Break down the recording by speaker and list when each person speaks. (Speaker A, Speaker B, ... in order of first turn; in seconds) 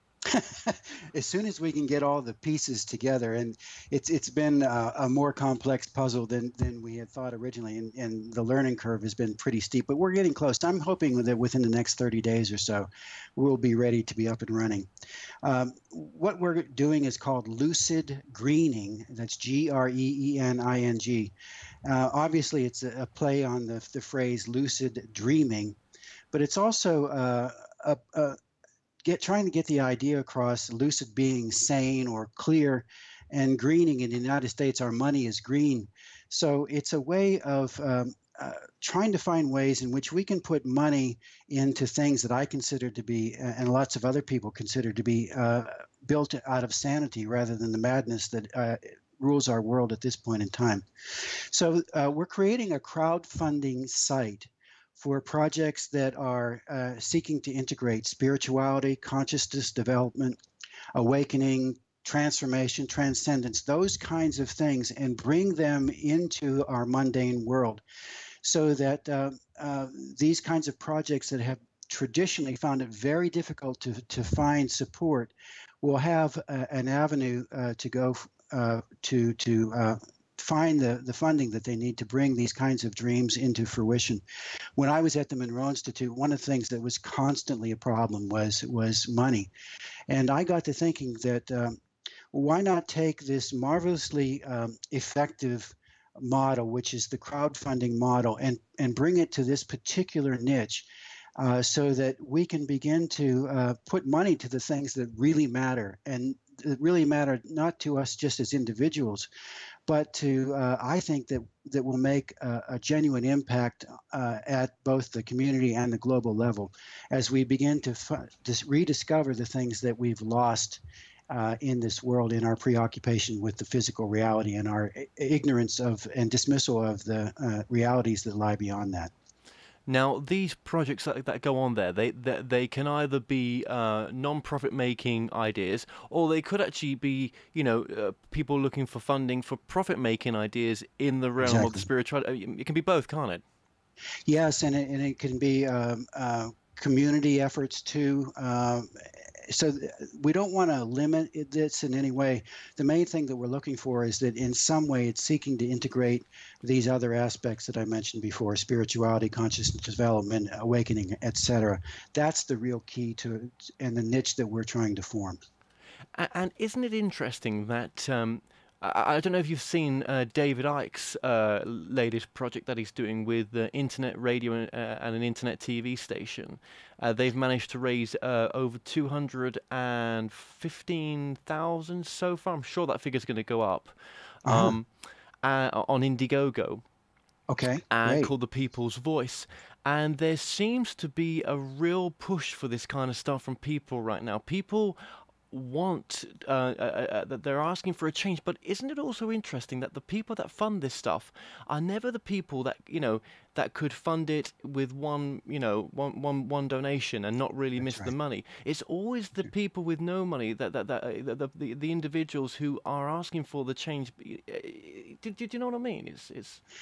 Speaker A: 0.2-14.9, 15.4-21.3, 21.8-25.8, 26.3-28.4, 29.0-60.4, 60.9-67.8, 68.4-84.2, 84.8-89.5, 90.1-91.8, 92.3-109.3, 109.8-129.1, 141.4-141.8, 144.3-165.4, 184.4-184.8, 187.5-188.3, 207.8-208.1
Speaker B: 129.9-143.4, 166.1-184.9, 185.4-186.8, 187.9-195.0, 195.5-216.6